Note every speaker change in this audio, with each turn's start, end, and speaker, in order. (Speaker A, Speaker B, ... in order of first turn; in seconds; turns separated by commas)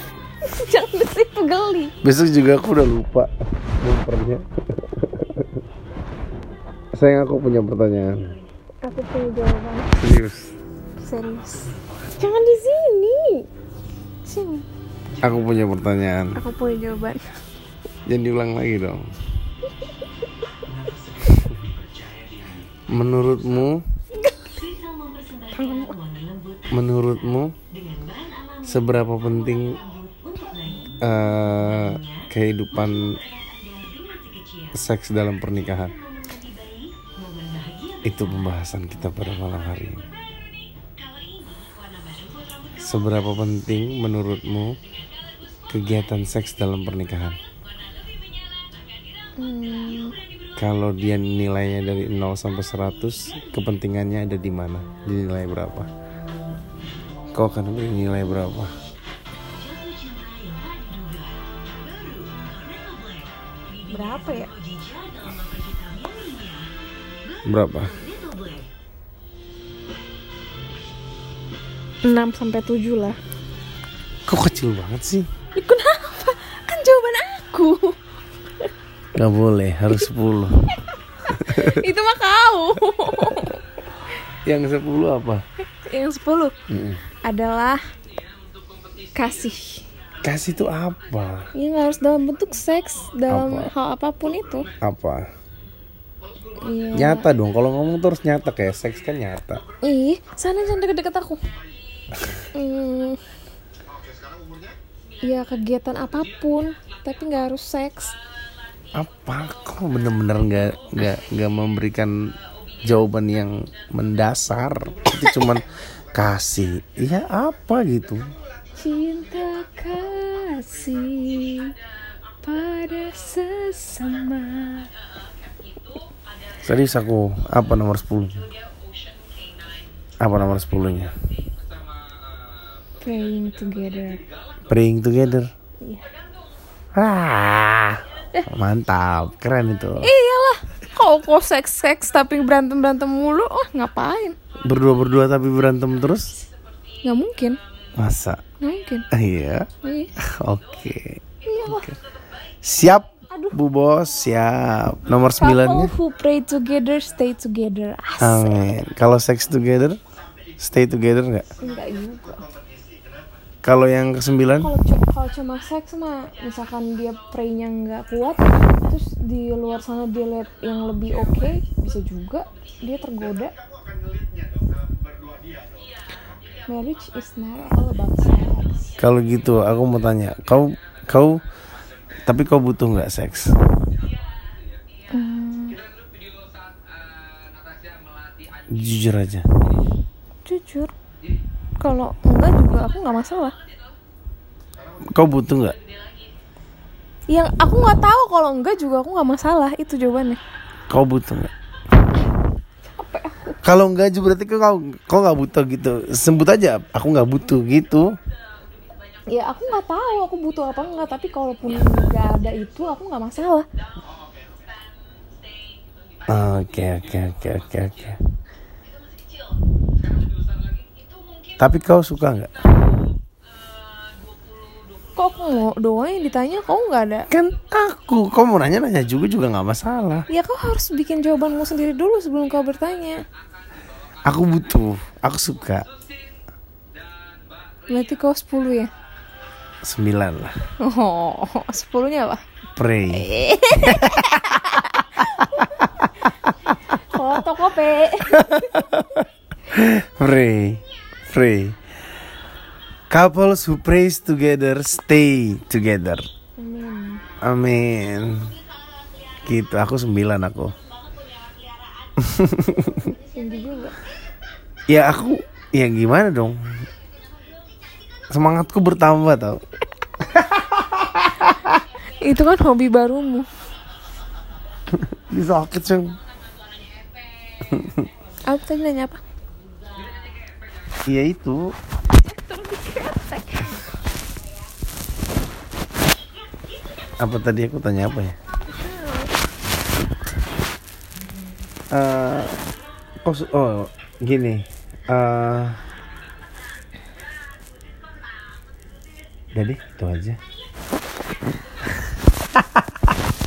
Speaker A: 0.4-1.9, Speaker B: 2.0-5.6, Speaker B: 6.9-8.4, Speaker A: 8.8-10.0, Speaker B: 10.0-10.5, Speaker A: 11.0-13.5, Speaker A: 14.2-14.7, Speaker B: 15.2-16.4, Speaker A: 16.3-17.3, Speaker B: 18.1-19.1, Speaker B: 21.2-21.6, Speaker B: 22.9-23.8, Speaker A: 24.1-24.5, Speaker A: 25.5-26.0, Speaker B: 26.7-27.5, Speaker B: 28.6-29.8, Speaker B: 31.0-33.2, Speaker B: 34.7-36.0, Speaker B: 38.0-40.1, Speaker B: 42.8-44.8, Speaker B: 45.7-47.4, Speaker A: 49.4-50.1, Speaker B: 50.6-55.9, Speaker B: 57.3-58.7, Speaker A: 63.8-64.5, Speaker B: 67.4-68.0, Speaker A: 72.0-73.2, Speaker B: 74.3-75.3, Speaker A: 75.5-78.0, Speaker B: 79.2-80.5, Speaker A: 81.2-83.6, Speaker B: 81.3-81.7, Speaker B: 84.5-85.4, Speaker A: 85.6-86.5, Speaker B: 86.7-87.0, Speaker A: 87.2-87.8, Speaker A: 89.1-89.8, Speaker B: 90.2-91.5, Speaker A: 91.5-94.7, Speaker B: 93.3-93.7, Speaker B: 94.8-95.2, Speaker A: 96.6-97.3, Speaker B: 96.9-99.6, Speaker A: 99.8-101.4, Speaker A: 102.5-103.2, Speaker A: 105.2-108.2, Speaker B: 108.9-112.1, Speaker B: 112.9-118.2, Speaker A: 118.8-121.7, Speaker A: 122.4-124.9, Speaker B: 126.6-128.4, Speaker B: 130.2-131.1, Speaker A: 133.0-134.2, Speaker B: 134.7-135.5, Speaker B: 136.9-140.1, Speaker A: 140.0-144.4, Speaker B: 144.7-146.2, Speaker A: 147.0-147.6, Speaker B: 148.0-148.4, Speaker A: 148.6-149.1, Speaker B: 149.1-151.9, Speaker A: 149.8-150.1, Speaker A: 151.4-151.9, Speaker B: 152.6-155.9, Speaker A: 153.3-153.6, Speaker A: 155.4-158.7, Speaker B: 158.2-160.0, Speaker B: 160.6-161.4, Speaker A: 161.6-162.5, Speaker B: 163.6-164.7, Speaker A: 164.6-173.6, Speaker A: 176.7-178.9, Speaker B: 179.0-181.4, Speaker B: 182.2-183.5, Speaker A: 185.1-185.8, Speaker B: 188.7-189.4, Speaker A: 190.4-190.9, Speaker A: 191.8-193.5, Speaker B: 195.2-195.8, Speaker A: 197.3-200.4, Speaker B: 200.9-201.5, Speaker A: 203.0-203.6, Speaker B: 203.6-208.1, Speaker A: 209.3-213.7, Speaker B: 216.3-218.2, Speaker B: 221.6-222.5, Speaker A: 225.2-227.3, Speaker B: 227.3-230.2, Speaker A: 230.3-233.2, Speaker B: 234.2-235.8, Speaker A: 237.9-238.9, Speaker B: 239.8-240.5, Speaker A: 240.8-242.4, Speaker B: 242.8-245.1, Speaker A: 243.1-246.0, Speaker A: 246.8-248.9, Speaker B: 248.3-251.8, Speaker B: 253.1-256.2, Speaker A: 256.6-257.2, Speaker B: 257.4-258.5, Speaker B: 259.4-260.7, Speaker B: 262.2-263.1, Speaker A: 262.9-263.9, Speaker B: 264.9-266.6, Speaker B: 268.3-269.6, Speaker B: 270.2-271.8, Speaker A: 272.2-273.5, Speaker B: 274.9-276.1, Speaker B: 277.6-278.1, Speaker A: 278.5-279.2, Speaker B: 281.1-281.6, Speaker A: 282.1-283.9, Speaker B: 287.2-288.4, Speaker A: 288.7-289.3, Speaker B: 291.9-292.6, Speaker B: 293.2-295.8, Speaker B: 299.5-300.4, Speaker B: 302.5-303.1